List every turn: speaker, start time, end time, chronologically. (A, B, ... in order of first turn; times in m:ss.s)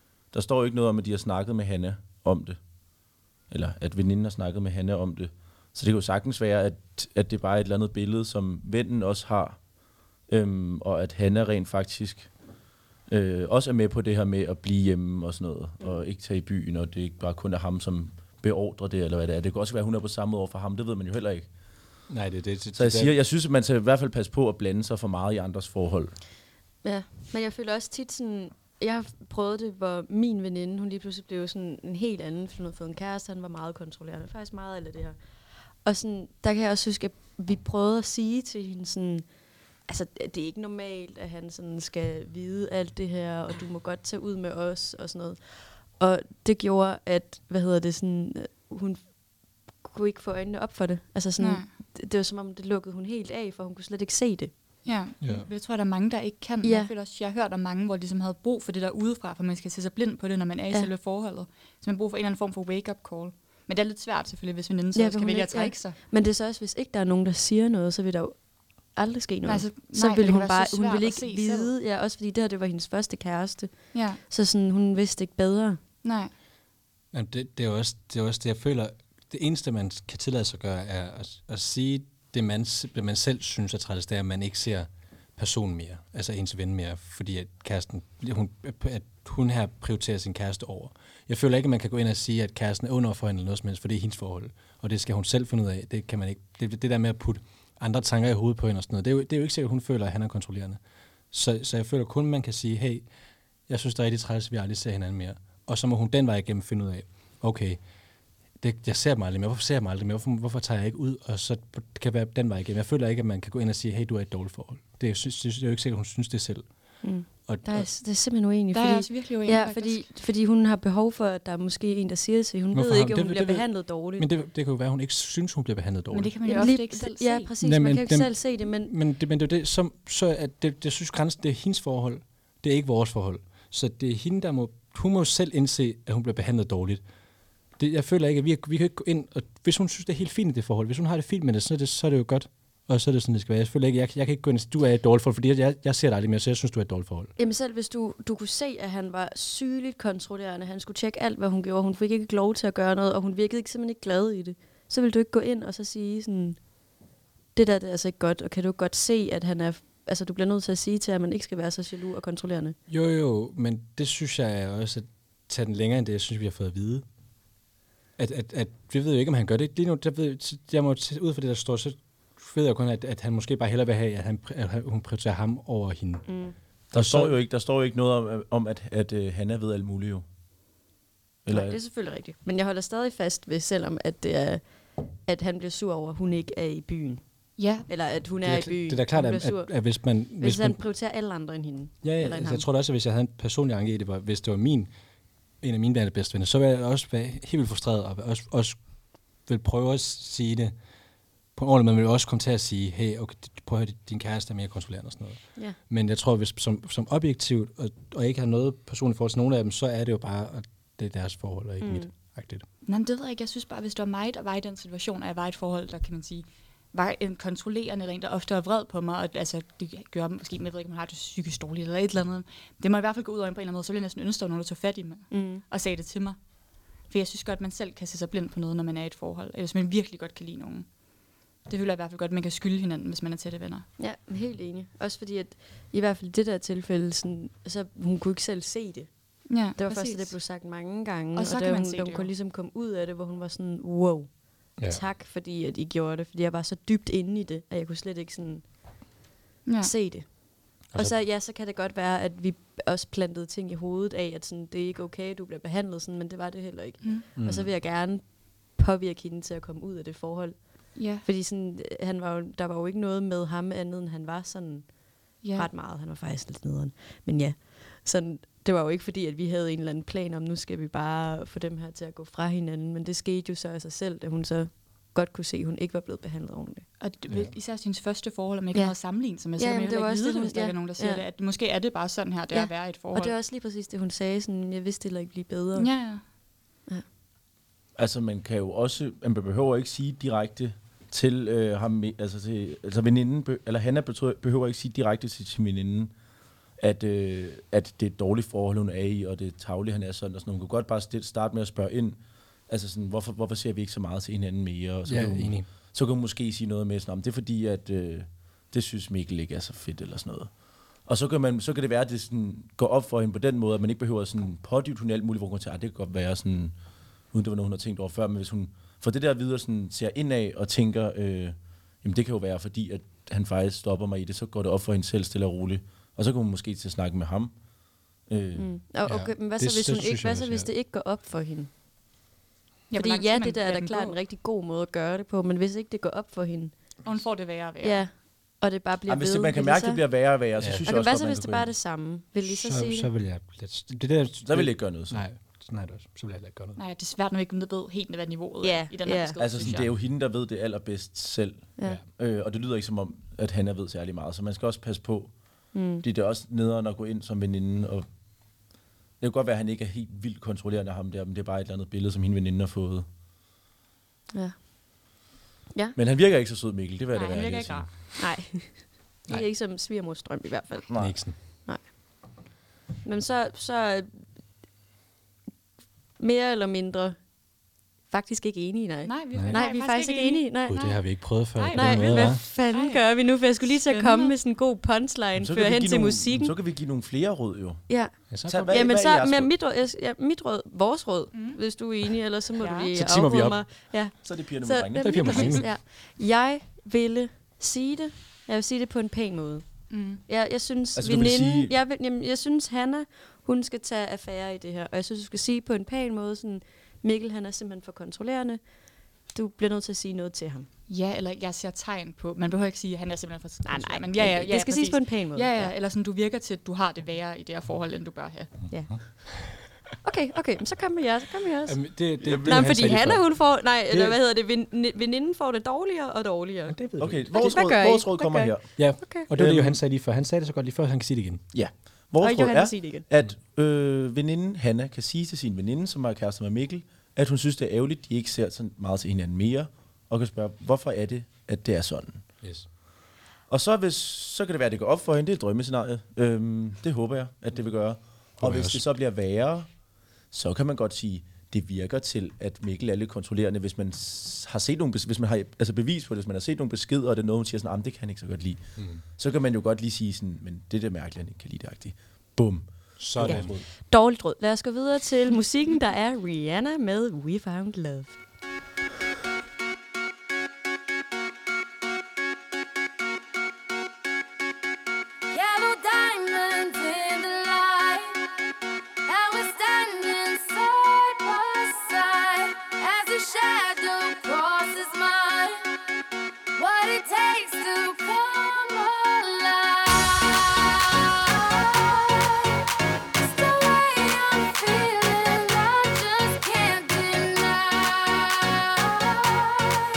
0:00.3-0:02.6 A
0:03.5-0:09.6 A
0:10.3-0:12.3 A
0:13.1-0:21.5 A
0:22.1-0:23.1 B
0:22.7-0:26.2 A
0:26.8-0:35.2 C
0:35.8-0:39.2 C
0:39.9-0:49.2 C
0:49.8-0:54.5 C
0:51.4-0:51.7 D
0:54.8-1:06.0 D
0:55.2-0:55.5 B
0:56.6-0:56.9 C
1:04.9-1:15.8 C
1:09.4-1:11.7 D
1:13.9-1:14.2 D
1:16.0-1:16.3 D
1:17.1-1:40.8 B
1:41.3-1:43.0 B
1:43.7-1:47.8 B
1:48.6-1:56.6 B
1:57.0-2:04.3 C
1:57.4-1:57.9 B
1:58.7-2:00.1 D
2:02.7-2:06.6 B
2:06.1-2:07.5 D
2:06.5-2:08.9 C
2:07.6-2:17.0 B
2:17.8-2:27.3 B
2:27.4-2:36.6 C
2:37.5-2:42.8 C
2:42.9-2:47.0 B
2:48.2-2:56.3 B
2:56.3-2:56.5 C
2:56.9-3:00.2 A
2:56.9-2:57.4 B
3:01.4-3:01.8 A
3:01.5-3:07.2 C
3:07.6-3:07.9 D
3:07.8-3:12.6 C
3:08.4-3:10.8 B
3:12.0-3:14.9 B
3:15.6-3:18.8 B
3:19.4-3:20.7 B
3:21.5-3:32.6 B
3:31.8-3:32.1 C
3:32.8-3:46.4 D
3:45.3-3:45.6 C
3:47.1-3:50.9 D
3:51.7-3:53.9 D
3:54.0-3:59.1 C
3:59.5-4:00.3 D
3:59.7-4:08.6 C
4:01.3-4:02.3 D
4:04.8-4:05.0 B
4:09.6-4:09.9 D
4:09.8-4:36.9 C
4:10.9-4:11.2 B
4:17.4-4:17.7 B
4:20.9-4:21.2 D
4:25.4-4:25.7 D
4:37.0-4:43.3 D
4:37.3-4:37.5 B
4:39.5-4:41.2 C
4:42.5-4:45.9 C
4:45.8-4:46.2 D
4:48.0-4:56.1 A
4:56.8-5:10.5 A
5:05.0-5:05.7 B
5:11.0-5:16.7 A
5:17.3-5:27.5 A
5:28.2-5:28.7 A
5:28.6-5:31.7 C
5:29.0-5:30.7 B
5:32.9-5:34.2 D
5:32.9-5:36.7 C
5:37.0-5:38.0 D
5:37.8-5:40.0 C
5:39.1-5:41.7 A
5:40.6-5:40.8 B
5:40.8-5:43.1 C
5:42.4-5:46.8 B
5:44.4-5:45.2 A
5:46.8-5:49.8 D
5:48.6-5:49.4 C
5:49.4-5:55.3 A
5:49.6-5:49.9 B
5:55.7-5:56.0 C
5:56.0-5:58.1 A
5:59.2-6:03.1 A
6:06.0-6:07.9 A
6:07.1-6:07.9 D
6:08.2-6:11.8 C
6:10.9-6:11.2 A
6:10.9-6:11.4 B
6:13.0-6:14.2 C
6:16.2-6:17.2 C
6:18.1-6:20.9 C
6:19.1-6:21.0 D
6:19.3-6:19.6 B
6:20.6-6:22.4 B
6:21.6-6:24.3 D
6:21.7-6:26.5 C
6:25.4-6:27.8 A
6:27.9-6:39.6 C
6:28.3-6:28.8 B
6:28.4-6:29.5 A
6:31.3-6:31.6 D
6:32.6-6:32.9 D
6:32.9-6:33.6 B
6:34.2-6:35.5 A
6:35.0-6:35.7 B
6:35.3-6:35.6 D
6:39.9-6:40.2 D
6:40.2-6:48.6 C
6:41.0-6:41.7 A
6:49.3-6:50.7 C
6:50.9-6:58.5 D
6:53.6-6:55.7 C
6:58.7-6:59.2 C
7:00.0-7:09.3 C
7:01.7-7:04.2 B
7:02.2-7:02.9 A
7:06.7-7:07.5 B
7:07.0-7:08.8 A
7:08.8-7:11.4 B
7:09.3-7:09.8 A
7:11.5-7:22.2 A
7:12.2-7:13.0 C
7:22.4-7:22.7 B
7:23.5-7:29.7 A
7:28.4-7:28.8 B
7:30.3-7:43.6 A
7:38.8-7:39.0 B
7:43.0-7:43.6 B
7:43.2-7:48.2 C
7:55.3-7:58.2 E
7:59.0-8:05.6 E
8:06.6-8:10.7 E
8:13.2-8:19.3 E